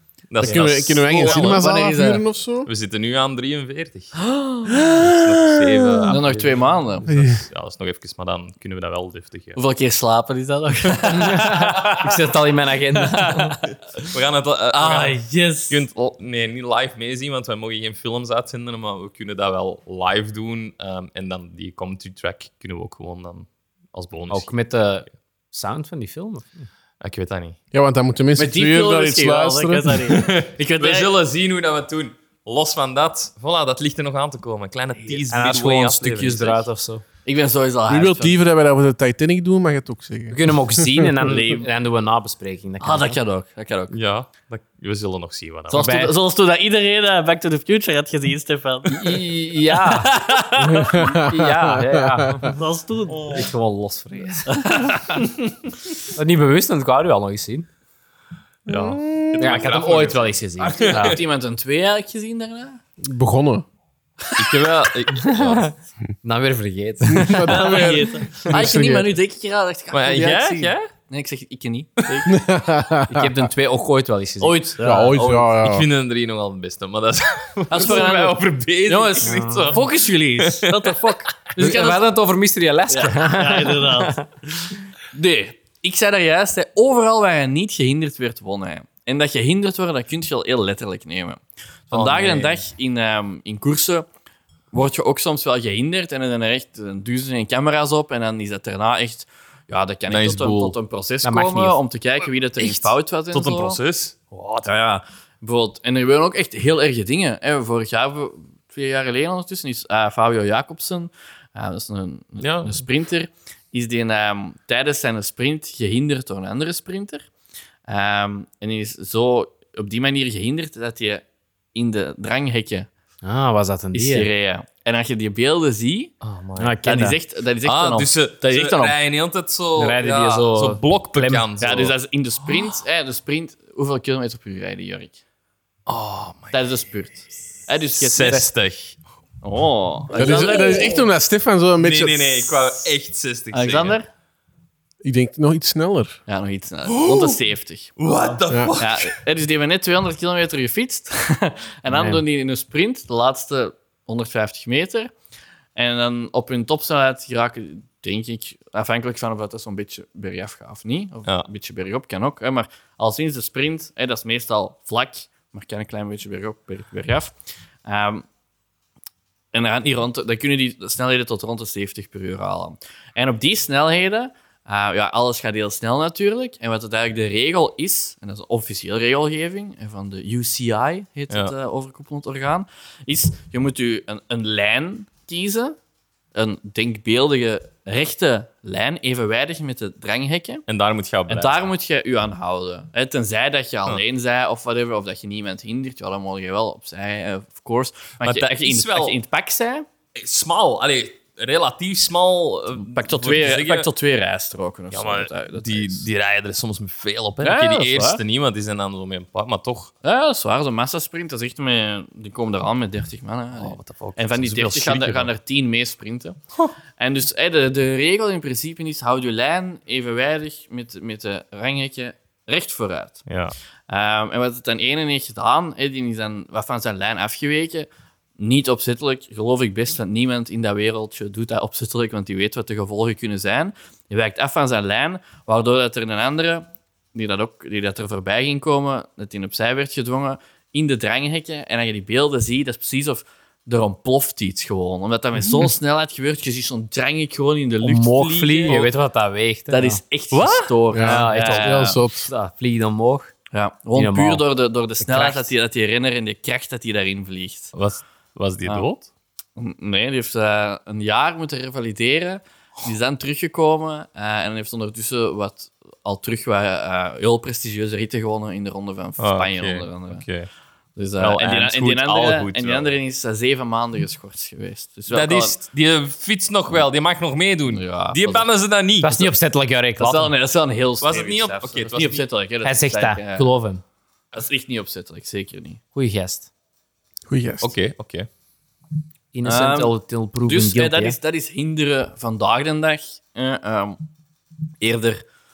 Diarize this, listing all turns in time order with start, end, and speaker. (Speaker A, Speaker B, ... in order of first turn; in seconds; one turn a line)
Speaker A: 0.3-1.6
Speaker B: 0.4-2.7
Speaker C: 0.4-2.2
Speaker A: 2.6-9.6
Speaker C: 4.2-5.2
Speaker C: 6.1-7.4
Speaker D: 6.1-6.5
Speaker B: 7.1-7.4
Speaker C: 9.5-12.1
Speaker D: 11.1-13.6
Speaker C: 13.0-14.1
Speaker A: 14.0-24.5
Speaker C: 14.7-15.8
Speaker D: 24.3-26.7
Speaker A: 27.0-27.6
Speaker B: 27.7-30.2
Speaker C: 28.4-31.1
Speaker A: 30.1-36.6
Speaker D: 35.1-37.0
Speaker C: 37.2-38.4
Speaker B: 37.9-41.1
Speaker D: 40.3-43.2
Speaker C: 41.2-41.6
Speaker C: 42.8-43.9
Speaker A: 43.9-45.9
Speaker C: 45.7-49.2
Speaker D: 45.7-46.1
Speaker D: 48.9-50.2
Speaker C: 49.8-51.1
Speaker B: 50.6-52.5
Speaker D: 50.8-52.6
Speaker C: 52.5-53.5
Speaker D: 53.2-55.3
Speaker C: 54.5-55.3
Speaker D: 56.1-57.7
Speaker A: 58.7-61.2
Speaker B: 58.7-59.6
Speaker D: 59.4-61.2
Speaker C: 60.6-62.8
Speaker B: 63.0-63.6
Speaker C: 64.2-64.7
Speaker A: 64.4-65.7
Speaker D: 65.2-65.7
Speaker D: 66.2-67.9
Speaker B: 67.1-69.1
Speaker C: 67.4-72.4
Speaker A: 69.9-70.9
Speaker B: 72.3-73.3
Speaker D: 73.1-74.7
Speaker C: 74.4-75.5
Speaker B: 74.8-75.8
Speaker A: 75.6-81.4
Speaker C: 77.7-82.0
Speaker D: 79.2-79.8
Speaker D: 81.6-84.2
Speaker C: 82.9-84.2
Speaker C: 85.1-94.1
Speaker A: 91.9-92.6
Speaker C: 94.7-103.8
Speaker A: 100.1-100.8
Speaker D: 101.2-101.8
Speaker A: 103.3-104.7
Speaker C: 104.6-117.3
Speaker A: 112.4-112.7
Speaker C: 117.9-122.9
Speaker D: 123.2-124.3
Speaker C: 123.9-126.1
Speaker A: 126.2-126.8
Speaker D: 126.6-127.2
Speaker C: 126.8-128.9
Speaker A: 127.6-132.8
Speaker D: 129.8-131.5
Speaker C: 131.6-135.2
Speaker A: 135.9-136.6
Speaker C: 136.5-138.5
Speaker A: 137.9-139.0
Speaker C: 139.4-141.1
Speaker B: 140.1-142.5
Speaker A: 141.8-144.0
Speaker C: 143.5-144.1
Speaker B: 145.0-146.2
Speaker C: 146.3-148.0
Speaker A: 146.9-147.4
Speaker A: 148.0-149.2
Speaker C: 148.8-155.1
Speaker D: 151.9-152.2
Speaker C: 155.7-168.2
Speaker C: 169.5-185.8
Speaker C: 186.3-190.6
Speaker A: 190.7-191.6
Speaker C: 191.3-199.8
Speaker A: 198.2-199.2
Speaker A: 200.2-203.9
Speaker C: 202.8-206.1
Speaker A: 204.9-209.9
Speaker C: 207.4-208.2
Speaker C: 210.0-216.4
Speaker A: 213.5-215.3
Speaker C: 217.0-223.2
Speaker A: 223.3-223.5
Speaker C: 223.9-227.9
Speaker C: 228.4-248.9
Speaker D: 247.8-250.0
Speaker C: 249.7-252.0
Speaker A: 250.3-250.7
Speaker B: 250.9-252.3
Speaker D: 251.0-253.3
Speaker C: 253.5-257.7
Speaker D: 253.9-254.4
Speaker D: 255.0-255.5
Speaker A: 257.7-259.1
Speaker C: 259.6-270.2
Speaker A: 269.2-270.5
Speaker C: 270.9-275.6
Speaker A: 271.2-272.9
Speaker A: 275.1-279.3
Speaker C: 277.7-278.4
Speaker D: 279.0-280.3
Speaker C: 280.0-283.5
Speaker A: 281.0-282.3
Speaker D: 282.6-283.8
Speaker C: 284.3-285.8
Speaker D: 285.9-286.5
Speaker B: 287.3-287.7
Speaker A: 287.6-288.3
Speaker D: 289.3-291.2
Speaker C: 289.4-294.0
Speaker C: 294.8-295.2